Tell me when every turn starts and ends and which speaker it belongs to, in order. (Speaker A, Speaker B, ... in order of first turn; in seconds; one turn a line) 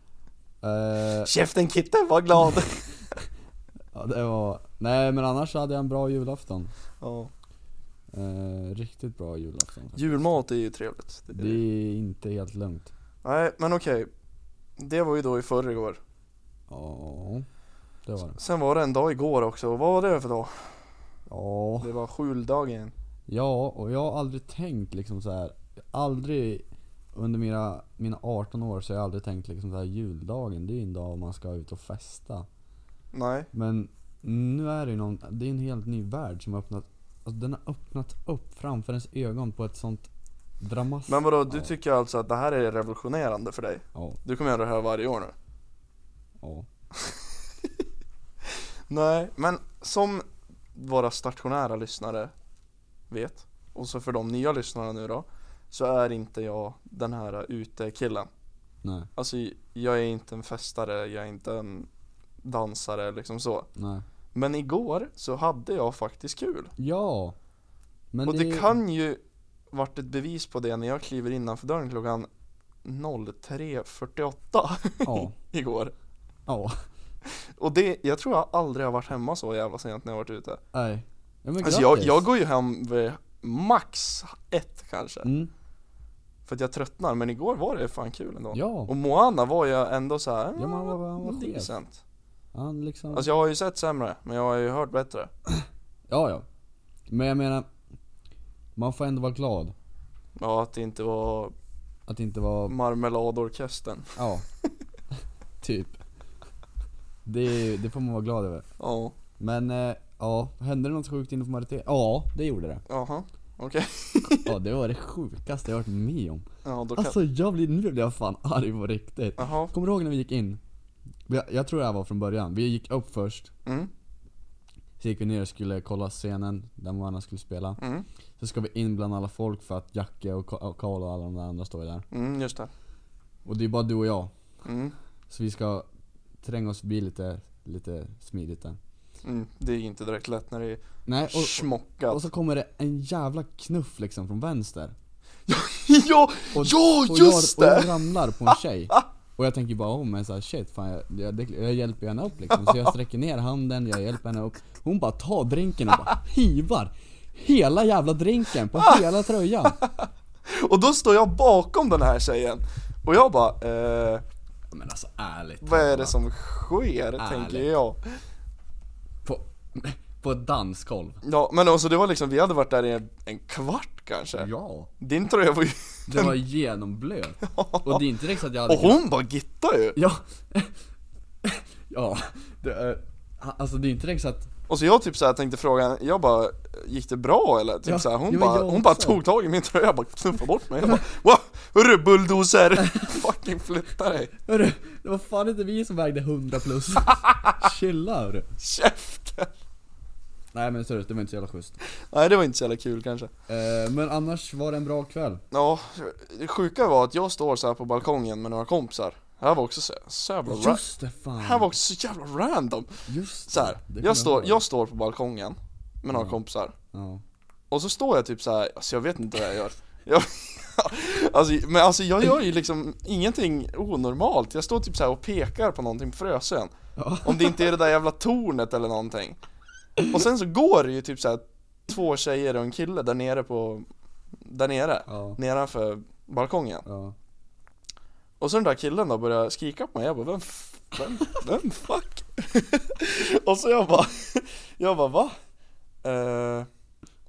Speaker A: 0.6-1.3
Speaker B: 1.2-3.1
Speaker A: 3.9-6.7
Speaker B: 7.0-7.3
Speaker A: 8.1-10.4
Speaker B: 9.9-11.6
Speaker A: 11.3-12.9
Speaker B: 13.2-14.1
Speaker B: 14.8-16.0
Speaker A: 16.7-17.5
Speaker A: 18.0-18.4
Speaker B: 18.4-20.9
Speaker A: 21.3-21.9
Speaker B: 21.8-22.9
Speaker A: 23.3-32.5
Speaker B: 33.1-33.5
Speaker A: 33.5-40.1
Speaker A: 40.6-41.7
Speaker B: 41.1-45.3
Speaker A: 46.4-46.7
Speaker B: 47.0-47.8
Speaker B: 48.4-52.3
Speaker B: 53.1-58.3
Speaker A: 58.8-59.1
Speaker B: 59.1-61.9
Speaker B: 62.4-63.7
Speaker A: 63.8-64.0
Speaker B: 64.3-66.7
Speaker A: 66.8-67.3
Speaker A: 68.1-68.7
Speaker B: 68.3-72.3
Speaker B: 72.8-75.9
Speaker A: 75.0-75.3
Speaker A: 76.5-76.8
Speaker B: 77.2-80.6
Speaker A: 80.7-82.2
Speaker B: 81.6-85.3
Speaker A: 85.2-85.5
Speaker B: 86.5-92.0
Speaker A: 88.5-88.9
Speaker A: 90.5-91.7
Speaker A: 92.5-93.3
Speaker B: 93.1-95.3
Speaker A: 95.5-96.5
Speaker A: 97.1-97.7
Speaker A: 98.8-99.7
Speaker B: 100.4-101.5
Speaker A: 102.1-102.7
Speaker B: 102.7-104.1
Speaker A: 104.2-104.5
Speaker A: 105.6-106.0
Speaker A: 107.2-108.7
Speaker B: 108.8-109.2
Speaker A: 109.4-112.8
Speaker B: 112.9-114.5
Speaker A: 114.4-120.6
Speaker B: 116.6-117.2
Speaker B: 119.4-119.7
Speaker A: 121.3-123.5
Speaker B: 123.6-123.9
Speaker A: 125.0-127.8
Speaker B: 127.8-128.1
Speaker A: 128.4-132.1
Speaker B: 132.1-132.7
Speaker A: 133.4-134.3
Speaker B: 134.6-134.9
Speaker A: 135.3-135.9
Speaker A: 136.4-138.8
Speaker B: 139.2-142.3
Speaker A: 141.1-144.9
Speaker B: 145.5-148.6
Speaker A: 146.5-159.8
Speaker B: 152.5-152.9
Speaker B: 158.7-159.0
Speaker B: 159.7-164.2
Speaker A: 164.7-166.2
Speaker B: 165.6-168.0
Speaker A: 167.2-167.7
Speaker A: 169.2-171.2
Speaker B: 171.2-174.5
Speaker A: 174.3-174.9
Speaker B: 175.0-176.4
Speaker A: 176.1-179.0
Speaker B: 177.4-178.1
Speaker B: 178.7-180.0
Speaker A: 179.9-180.7
Speaker A: 181.4-184.5
Speaker B: 184.7-194.3
Speaker A: 187.8-189.2
Speaker A: 192.8-193.2
Speaker A: 194.4-198.5
Speaker B: 198.6-199.5
Speaker A: 200.5-201.8
Speaker B: 202.0-203.3
Speaker A: 203.5-205.4
Speaker B: 205.5-210.8
Speaker A: 210.4-211.7
Speaker B: 211.4-216.7
Speaker A: 213.1-214.6
Speaker A: 216.1-216.4
Speaker A: 216.9-217.2
Speaker B: 217.7-229.4
Speaker A: 227.0-227.8
Speaker B: 230.1-233.8
Speaker B: 234.4-236.8
Speaker A: 235.1-235.4
Speaker A: 236.8-237.1
Speaker B: 238.4-245.3
Speaker B: 246.0-246.7